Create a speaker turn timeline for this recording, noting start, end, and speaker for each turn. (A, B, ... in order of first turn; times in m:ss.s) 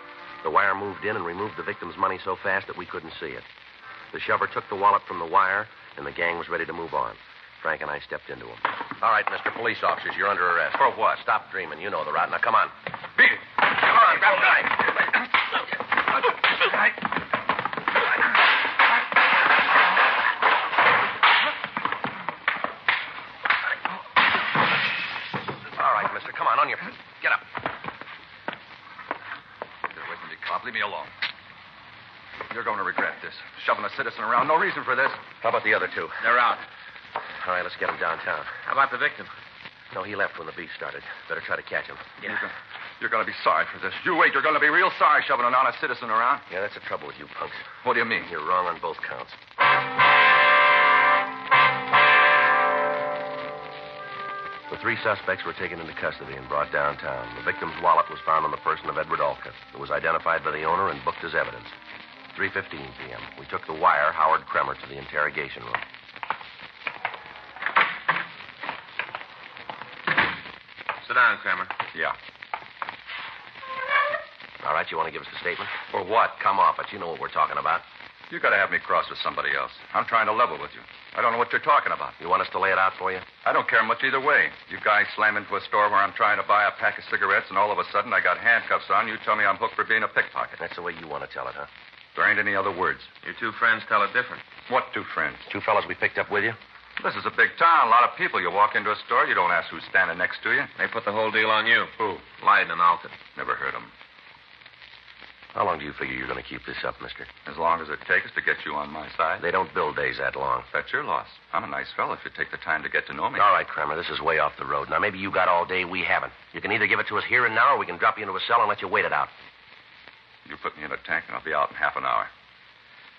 0:00.4-0:03.5 A
0:04.1-0:12.7 A
0:10.8-0:11.2 B
0:13.2-0:14.7 B
0:25.8-0:27.5 A
0:29.9-0:31.1 B
0:32.5-0:35.2 B
0:35.4-0:36.2 A
0:36.2-0:36.6 C
0:37.4-0:38.5 A
0:38.6-0:39.3 C
0:39.9-0:42.4 A
0:42.2-0:46.4 B
0:46.5-0:47.7 A
0:47.8-0:48.3 B
0:48.2-0:49.4 A
0:54.7-1:01.7 A
1:02.3-1:05.8 A
1:11.0-1:11.7 C
1:14.6-1:15.8 A
1:15.9-1:16.4 B
1:16.4-1:17.8 A
1:18.3-1:22.2 B
1:22.2-1:23.3 A
1:23.4-1:30.6 B
1:30.6-1:31.7 A
1:32.1-1:33.1 B
1:33.2-1:34.4 C
1:34.7-1:35.4 B
1:35.5-1:36.6 A
1:37.0-1:40.7 B
1:40.8-1:43.2 C
1:42.0-1:42.2 B
1:43.3-1:43.9 B
1:45.5-1:47.3 A
1:47.4-1:49.4 B
1:49.4-1:50.7 A
1:50.7-1:53.5 B
1:53.4-1:59.3 A
2:00.4-2:02.3 B